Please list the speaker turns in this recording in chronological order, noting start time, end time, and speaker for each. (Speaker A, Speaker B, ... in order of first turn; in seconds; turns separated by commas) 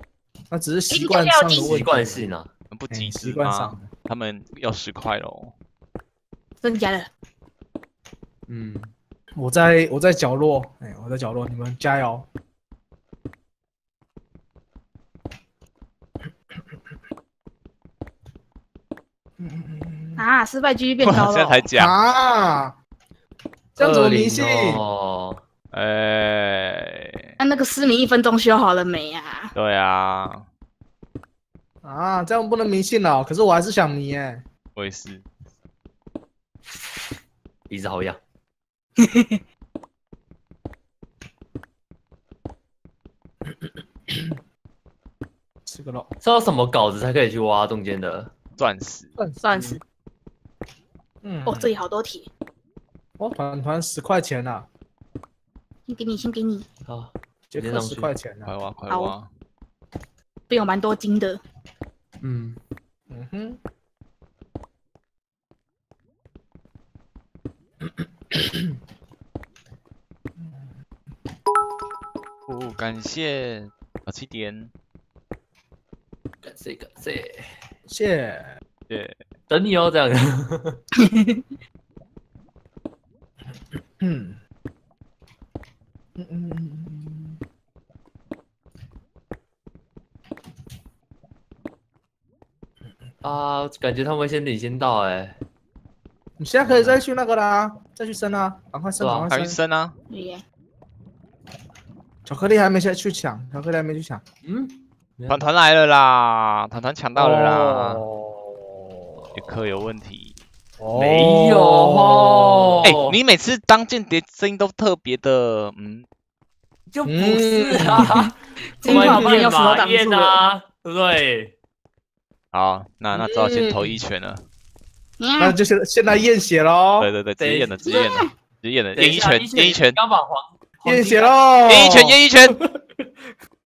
Speaker A: 0.5-2.3, Speaker B: 0.9-1.8, Speaker C: 1.7-2.5, Speaker D: 2.7-5.5, Speaker A: 2.9-3.9, Speaker B: 6.6-7.1, Speaker C: 8.5-8.9, Speaker A: 9.4-12.3, Speaker A: 19.4-20.3, Speaker B: 20.2-21.7, Speaker D: 21.0-21.9, Speaker A: 21.7-22.8, Speaker C: 23.8-25.4, Speaker A: 23.8-24.8, Speaker D: 25.7-27.2, Speaker B: 27.4-29.5, Speaker D: 29.6-30.4, Speaker A: 31.8-34.4, Speaker D: 34.8-35.3, Speaker C: 37.7-38.2, Speaker B: 39.0-39.4, Speaker A: 45.6-46.1, Speaker C: 46.2-48.3, Speaker D: 48.6-49.1, Speaker A: 49.2-49.5, Speaker B: 49.4-49.8, Speaker A: 51.2-51.7, Speaker B: 51.5-52.3, Speaker A: 53.2-54.7, Speaker B: 55.9-56.7, Speaker C: 56.9-58.1, Speaker A: 57.5-58.5, Speaker D: 58.4-59.3, Speaker B: 58.9-59.2, Speaker B: 60.5-61.4, Speaker C: 62.2-62.6, Speaker A: 63.1-63.6, Speaker A: 70.4-70.7, Speaker D: 72.5-74.7, Speaker C: 76.4-77.5, Speaker A: 77.9-78.6, Speaker D: 78.9-79.2, Speaker C: 79.5-80.8, Speaker B: 81.0-81.5, Speaker A: 84.0-84.4, Speaker A: 86.2-87.4, Speaker C: 93.2-95.4, Speaker A: 96.4-99.6, Speaker C: 96.6-97.0, Speaker C: 99.0-99.3, Speaker D: 99.3-100.0, Speaker B: 100.1-100.4, Speaker A: 102.3-104.2, Speaker C: 104.4-105.5, Speaker D: 105.3-108.0, Speaker A: 107.2-108.8, Speaker C: 109.3-109.7, Speaker D: 109.4-110.4, Speaker A: 110.8-112.8, Speaker C: 110.9-113.2, Speaker D: 112.8-116.1, Speaker C: 116.9-118.3, Speaker A: 117.1-118.1, Speaker B: 118.7-120.5, Speaker C: 118.8-121.5, Speaker A: 119.0-119.4, Speaker D: 122.5-124.4, Speaker A: 123.2-124.0, Speaker B: 125.2-125.6, Speaker A: 125.4-127.1, Speaker D: 127.0-130.0, Speaker C: 127.4-127.8, Speaker B: 127.8-128.3, Speaker C: 128.9-131.5, Speaker A: 130.8-132.9, Speaker D: 131.7-132.6